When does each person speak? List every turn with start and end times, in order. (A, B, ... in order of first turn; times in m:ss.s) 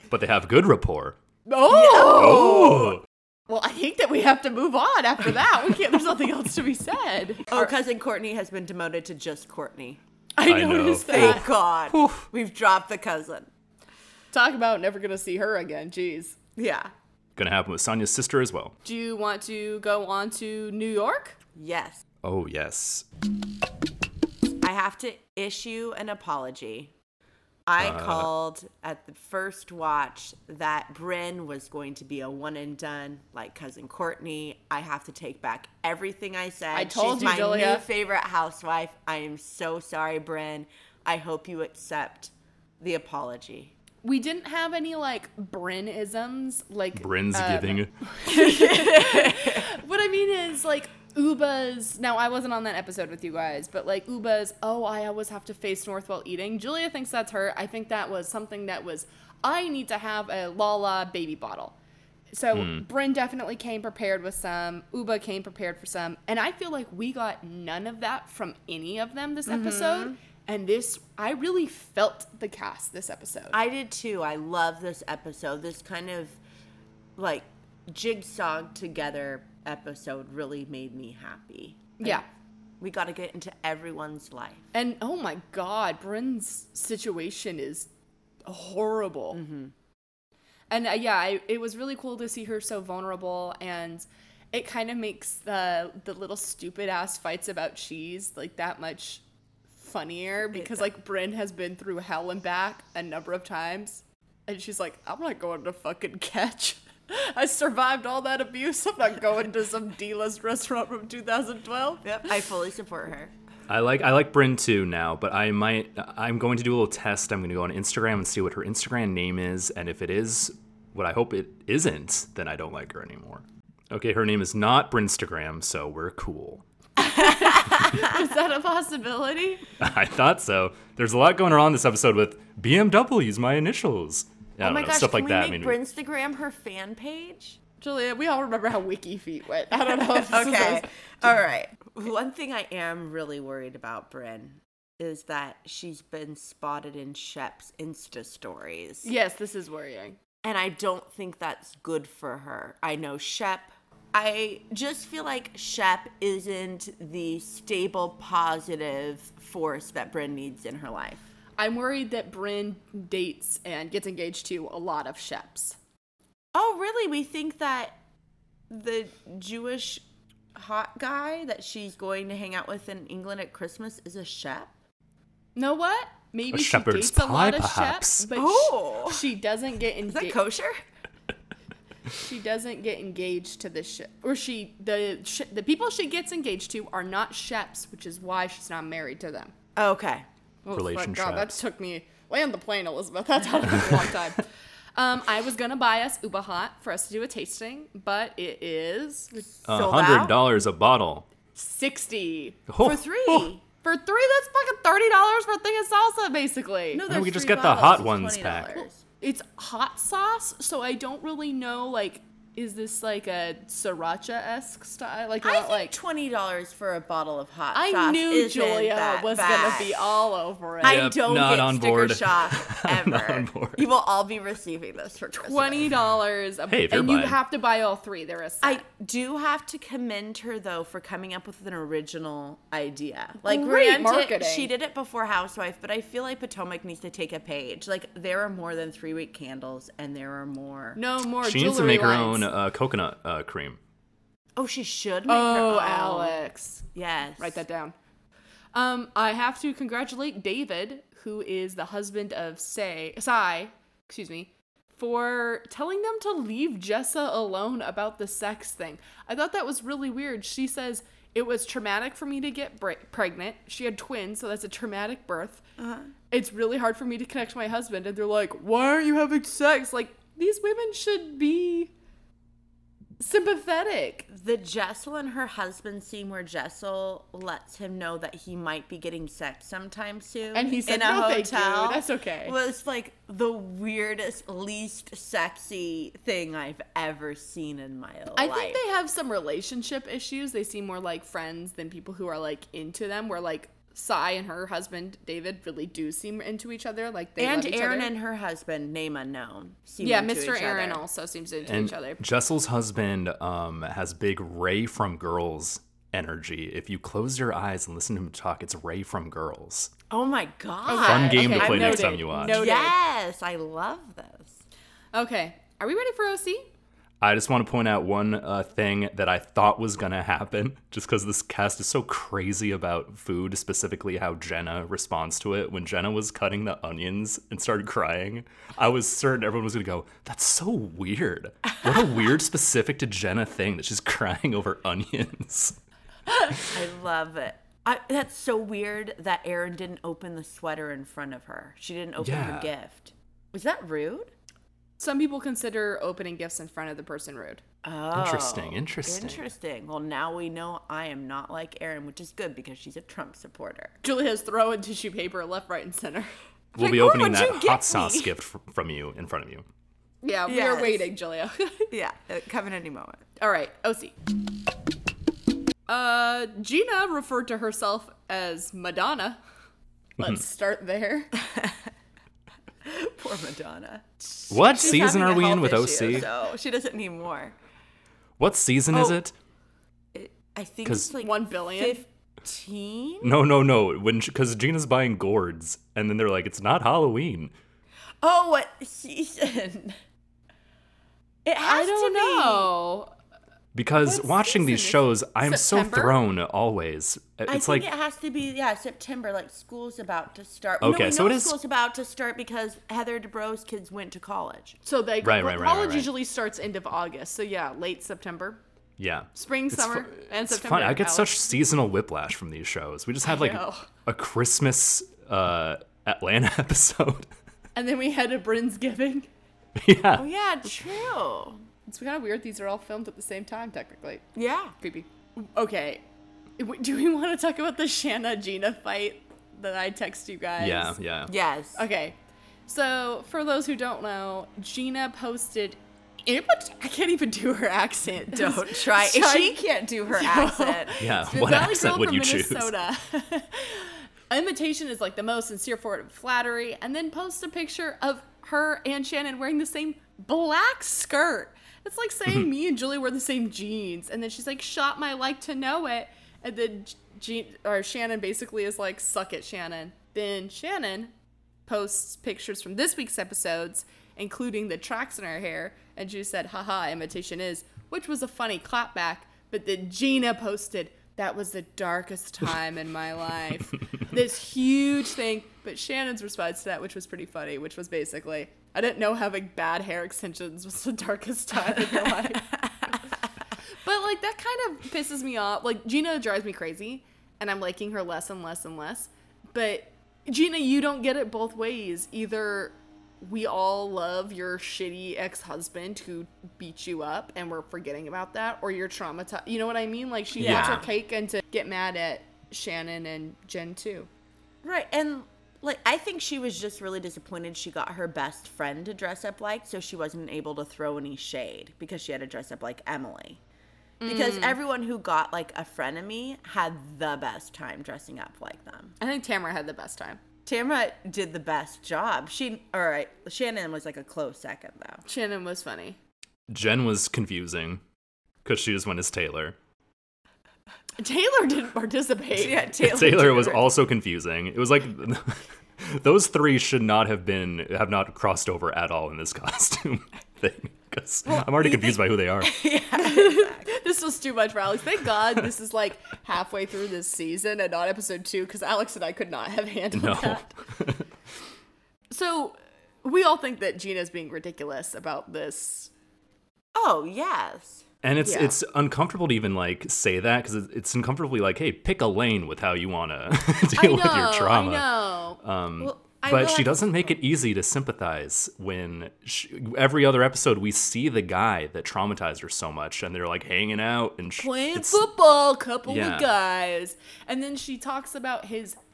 0:00.1-0:01.2 A
0:01.4-0:02.9 B
0:01.7-0:02.9 C
0:01.9-0:03.0 A
0:03.5-0:07.7 B
0:07.5-0:10.0 C
0:10.4-0:11.5 B
0:10.5-0:12.2 A
0:11.1-0:13.5 C
0:14.3-0:16.4 B
0:16.6-0:16.9 C
0:17.4-0:18.7 A
0:18.8-0:21.4 B
0:21.5-0:22.0 C
0:22.2-0:23.0 A
0:24.6-0:26.9 C
0:27.7-0:43.7 C
0:27.8-0:28.3 A
0:36.7-0:37.8 B
0:44.0-1:01.8 B
0:47.0-0:47.9 A
0:48.3-0:49.7 C
1:02.3-1:13.6 B
1:02.5-1:02.8 A
1:09.5-1:10.2 C
1:13.5-1:16.4 C
1:17.2-1:22.2 C
1:22.0-1:22.2 B
1:22.8-1:24.7 C
1:24.7-1:27.9 B
1:28.4-1:29.4 B
1:29.3-1:29.7 C
1:30.7-1:52.1 B
1:40.5-1:40.9 C
1:52.0-1:53.3 C
1:53.7-2:06.6 A
2:07.0-2:09.6 B
2:09.8-2:15.8 A
2:14.6-2:17.6 C
2:17.8-2:20.9 B
2:19.9-2:29.1 C
2:29.0-2:30.2 B
2:30.4-2:41.2 C
2:41.6-2:45.8 B
2:46.5-2:48.0 C
2:48.7-2:50.0 C
2:50.5-2:54.7 C
2:55.6-3:00.4 B
2:56.5-2:58.3 A
2:58.3-2:59.2 C
3:00.0-3:00.8 C
3:02.1-3:09.5 B
3:09.8-3:10.3 C
3:10.6-3:19.4 B
3:10.7-3:11.6 A
3:19.6-3:20.4 C
3:19.6-3:21.3 A
3:21.5-3:22.6 B
3:22.7-3:23.0 A
3:22.8-3:23.6 C
3:23.8-3:27.0 B
3:26.9-3:29.0 C
3:27.1-3:28.8 A
3:29.2-3:35.9 B
3:35.4-3:40.2 C
3:37.7-3:41.0 B
3:40.8-3:45.9 C
3:40.8-3:43.9 A
3:45.3-3:48.8 B
3:46.7-3:47.4 A
3:48.6-4:01.0 C
3:53.4-3:54.7 B
4:01.0-4:02.5 B
4:01.4-4:03.8 A
4:04.6-4:06.4 C
4:05.3-4:06.8 B
4:06.9-4:07.6 C
4:07.4-4:07.9 B
4:08.7-4:25.6 B
4:25.8-4:26.1 C
4:26.3-4:31.9 B
4:33.2-4:34.3 B
4:34.3-4:48.8 C
4:40.5-4:42.5 B
4:48.4-4:58.1 B
4:57.4-5:01.0 C
5:00.0-5:02.2 B
5:01.6-5:09.9 A
5:10.1-5:14.6 C
5:10.8-5:12.9 B
5:11.0-5:12.6 A
5:15.1-5:16.7 B
5:17.2-5:35.8 A
5:36.7-5:44.3 C
5:42.2-5:42.7 A
5:45.0-5:47.6 B
5:47.8-5:54.0 C
5:48.1-5:49.4 A
5:54.0-5:56.3 B
5:56.7-5:59.6 A
5:56.8-5:58.3 C
6:00.2-6:01.9 B
6:00.5-6:01.1 C
6:01.9-6:03.2 C
6:03.4-6:04.1 B
6:05.9-6:09.4 B
6:10.2-6:11.3 B
6:11.3-6:11.9 C
6:12.8-6:17.6 C
6:14.5-6:16.3 A
6:18.4-6:19.3 A
6:18.9-6:19.2 C
6:20.1-6:23.3 C
6:20.8-6:21.1 A
6:21.2-6:22.0 B
6:23.2-6:27.5 A
6:28.2-6:30.0 C
6:31.4-6:32.7 C
6:31.6-6:33.1 B
6:33.7-6:37.8 A
6:34.0-6:36.2 B
6:37.5-6:44.8 C
6:40.8-6:41.6 A
6:44.8-6:48.6 B
6:45.2-6:46.1 A
6:49.0-6:57.3 A
6:49.3-6:51.4 B
6:53.2-6:53.9 B
6:57.7-6:59.3 B
6:59.8-7:00.2 A
7:00.1-7:01.6 C
7:01.8-7:04.2 B
7:04.3-7:04.8 C
7:04.8-7:06.0 B
7:06.6-7:11.0 B
7:10.6-7:11.3 A
7:11.3-7:11.8 C
7:11.8-7:41.1 B
7:18.3-7:21.1 C
7:21.0-7:22.7 A
7:41.6-8:02.9 B
8:01.9-8:02.9 C
8:03.8-8:24.1 B
8:20.4-8:20.9 C
8:20.4-8:20.8 A
8:24.6-8:33.4 C
8:34.0-8:34.6 B
8:34.0-8:38.9 C
8:39.0-8:40.2 B
8:40.4-8:45.0 C
8:45.0-8:46.0 B
8:46.5-8:47.8 A
8:48.4-8:49.6 A
8:51.0-8:52.7 B
8:52.3-8:53.7 C
8:52.7-9:02.6 A
9:01.3-9:03.7 C
9:02.9-9:10.5 B
9:09.9-9:11.0 A
9:12.1-9:15.9 B
9:16.7-9:17.8 C
9:18.0-9:35.1 A
9:18.2-9:18.6 B
9:23.7-9:25.4 B
9:25.8-9:27.2 C
9:34.4-9:38.8 B
9:35.8-9:36.3 A